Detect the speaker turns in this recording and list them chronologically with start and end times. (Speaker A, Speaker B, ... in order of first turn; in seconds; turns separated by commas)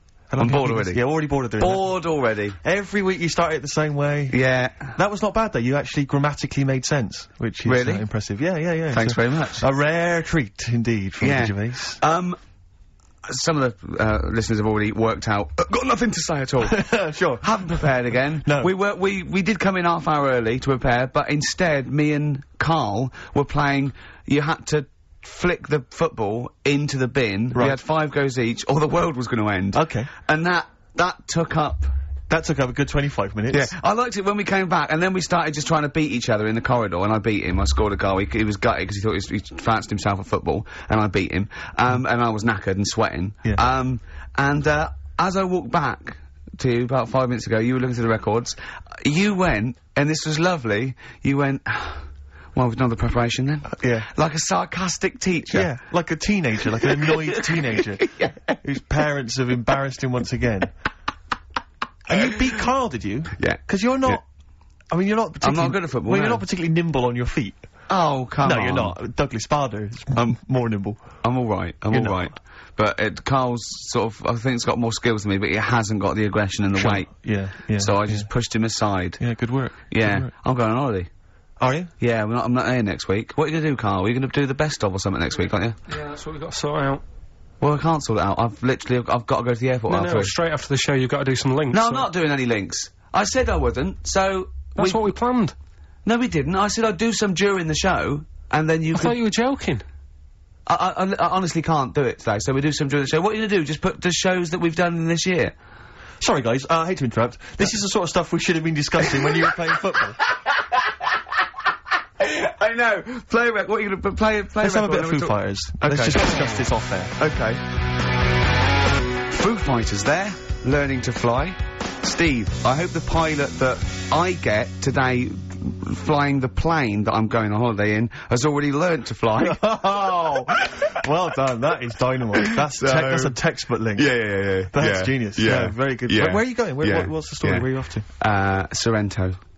Speaker A: 0.3-1.8, Speaker B: 0.4-1.0, Speaker B: 1.6-2.6, Speaker A: 2.6-12.0, Speaker B: 4.3-5.0, Speaker B: 7.6-8.1, Speaker B: 8.9-9.7, Speaker B: 11.2-12.4, Speaker B: 13.3-31.9, Speaker A: 16.6-17.9, Speaker A: 18.4-18.7, Speaker A: 29.7-30.1, Speaker A: 32.3-33.7, Speaker B: 33.5-55.7, Speaker A: 53.8-54.1, Speaker A: 55.5-60.7, Speaker B: 57.0-58.4, Speaker A: 62.1-64.2, Speaker B: 63.4-64.2, Speaker A: 64.9-67.6, Speaker B: 65.4-66.4, Speaker B: 67.9-69.0, Speaker A: 68.4-71.0, Speaker B: 71.2-77.1, Speaker A: 71.9-72.2, Speaker A: 76.7-78.3, Speaker B: 77.8-79.2, Speaker A: 79.2-80.3, Speaker B: 79.9-81.1, Speaker A: 81.6-81.9, Speaker B: 82.0-85.8, Speaker C: 85.9-87.0, Speaker B: 87.6-90.3, Speaker C: 89.9-92.1, Speaker B: 91.7-95.0, Speaker C: 94.7-95.5, Speaker B: 96.0-99.2, Speaker C: 98.9-99.8, Speaker B: 100.7-105.5, Speaker A: 106.2-110.2, Speaker B: 109.1-109.5, Speaker B: 110.3-111.2, Speaker B: 112.2-116.2, Speaker A: 114.6-117.1, Speaker B: 117.2-117.6, Speaker B: 119.3-130.8, Speaker A: 129.4-134.1, Speaker B: 132.7-133.4, Speaker B: 133.9-137.6, Speaker A: 134.7-138.1, Speaker B: 138.2-139.4